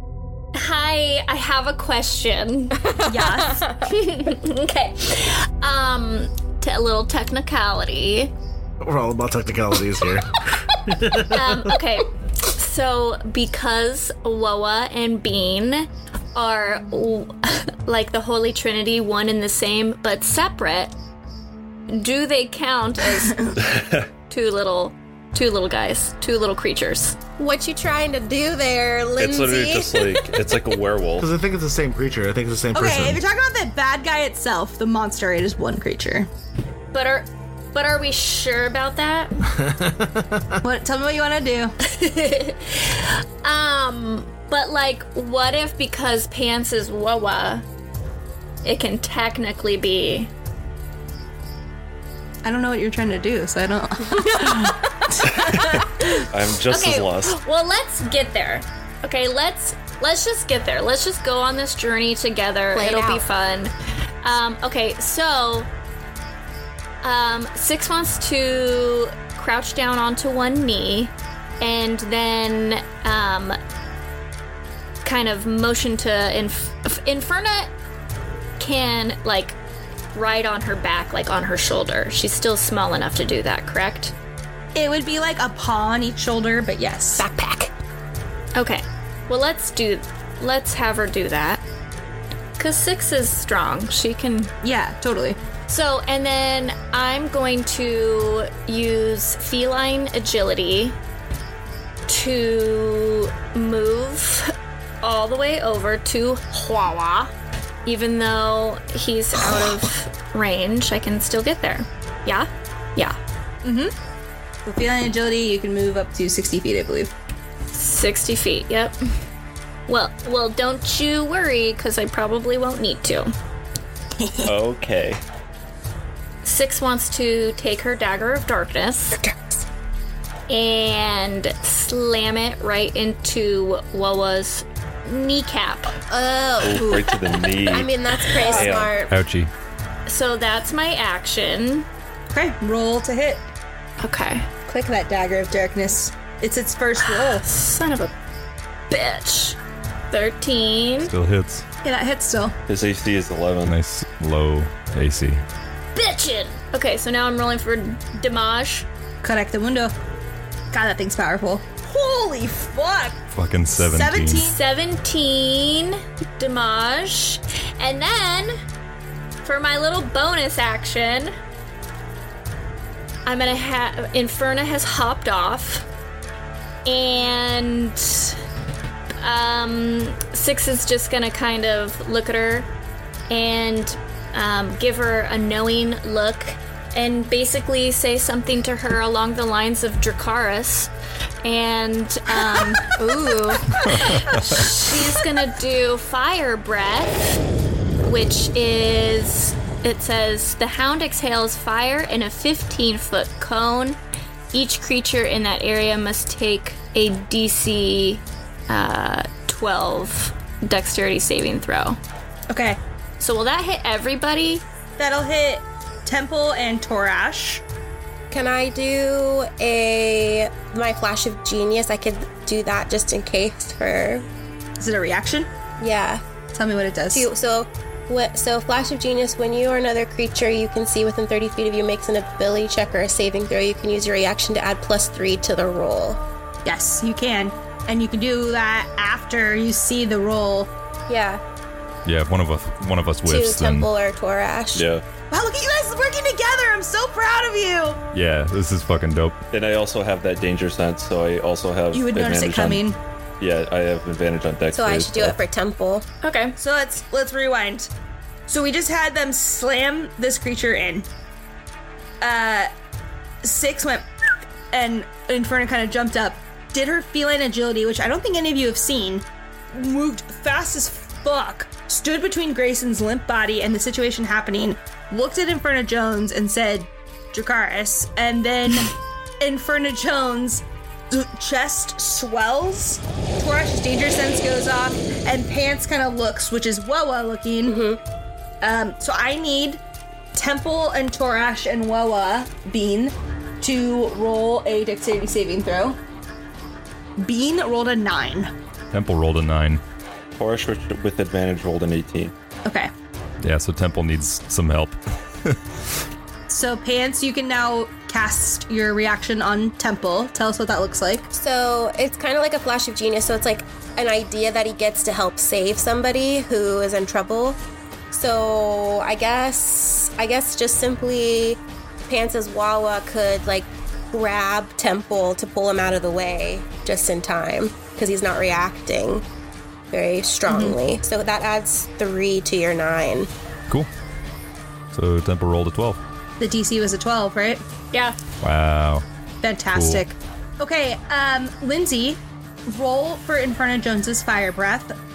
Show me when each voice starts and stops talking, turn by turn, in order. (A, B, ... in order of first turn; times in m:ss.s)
0:00.5-0:08.3 A
0:03.0-0:03.6 B
0:08.8-0:11.8 C
0:11.3-0:20.9 A
0:21.9-0:23.5 A
0:23.6-0:24.1 D
0:24.3-0:27.2 A
0:27.4-0:30.8 E
0:29.2-0:31.3 D
0:31.2-0:33.2 C
0:32.7-0:36.3 B
0:36.9-0:39.3 A
0:39.5-0:40.6 C
0:40.6-0:41.8 B
0:41.8-0:47.6 A
0:48.6-0:50.3 A
0:52.4-0:55.8 B
0:55.3-0:57.4 D
0:56.7-1:03.7 A
1:02.7-1:03.3 E
1:04.2-1:05.7 A
1:07.0-1:13.6 A
1:15.0-1:17.7 A
1:18.6-1:19.6 A
1:20.1-1:24.1 A
1:24.8-1:27.2 B
1:27.2-1:27.7 E
1:28.6-1:31.6 A
1:32.6-1:34.5 A
1:34.6-1:35.4 B
1:35.7-1:41.0 A
1:42.1-1:47.3 A
1:47.9-1:53.2 A
1:53.6-1:53.9 B
1:54.7-1:57.1 B
1:57.7-1:59.0 A
1:59.9-2:03.3 A
2:04.2-2:04.5 B
2:04.4-2:05.2 D
2:06.4-2:09.2 A
2:09.2-2:09.7 E
2:10.5-2:15.9 A
2:16.1-2:19.1 E
2:16.6-2:17.9 D
2:18.4-2:18.7 A
2:18.4-2:19.0 D
2:19.1-2:19.5 F
2:20.1-2:21.9 A
2:22.3-2:23.4 B
2:24.0-2:24.5 A
2:24.7-2:27.4 B
2:27.0-2:28.1 A
2:28.9-2:29.6 A
2:30.1-2:31.1 A
2:31.0-2:31.6 F
2:31.8-2:32.5 B
2:32.7-2:33.8 D
2:33.7-2:35.4 F
2:36.0-2:38.9 A
2:39.2-2:40.0 B
2:40.7-2:43.2 B
2:43.3-2:44.5 F
2:43.7-2:44.6 B
2:44.4-2:48.6 A
2:49.4-2:51.3 A
2:53.2-2:55.9 A
2:56.9-2:58.4 A
2:59.2-3:02.7 A
3:03.3-3:10.9 A
3:11.4-3:17.4 A
3:13.0-3:13.6 E
3:13.9-3:14.6 F
3:18.0-3:24.0 A
3:24.5-3:32.0 A
3:32.5-3:32.8 B
3:33.2-3:34.6 A
3:35.0-3:37.6 B
3:38.3-3:44.2 E
3:44.8-3:45.5 B
3:45.8-3:46.2 E
3:46.5-3:47.3 B
3:47.1-3:56.2 E
3:56.6-4:00.7 B
4:01.1-4:01.4 E
4:02.1-4:03.9 F
4:03.3-4:04.9 E
4:04.8-4:05.0 D
4:05.3-4:08.0 B
4:08.1-4:09.4 F
4:09.5-4:12.8 D
4:11.9-4:13.0 B
4:13.4-4:15.4 D
4:14.7-4:16.1 E
4:16.2-4:16.6 A
4:16.6-4:17.9 B
4:18.5-4:21.1 B
4:22.2-4:22.7 B
4:23.4-4:24.0 B
4:24.7-4:47.8 B
4:47.7-4:48.0 E
4:48.6-4:49.8 B
4:50.4-4:56.0 B
4:57.2-4:58.5 B
4:58.9-4:59.8 F
5:00.4-5:02.3 D
5:03.4-5:05.6 F
5:06.5-5:11.3 B
5:11.3-5:17.6 E
5:18.1-5:29.2 E
5:29.9-5:33.3 E
5:30.5-5:30.8 B
5:34.9-5:36.0 F
5:36.4-5:37.6 B
5:37.9-5:38.2 A
5:38.4-5:39.0 F
5:39.4-5:45.0 B
5:39.7-5:40.0 F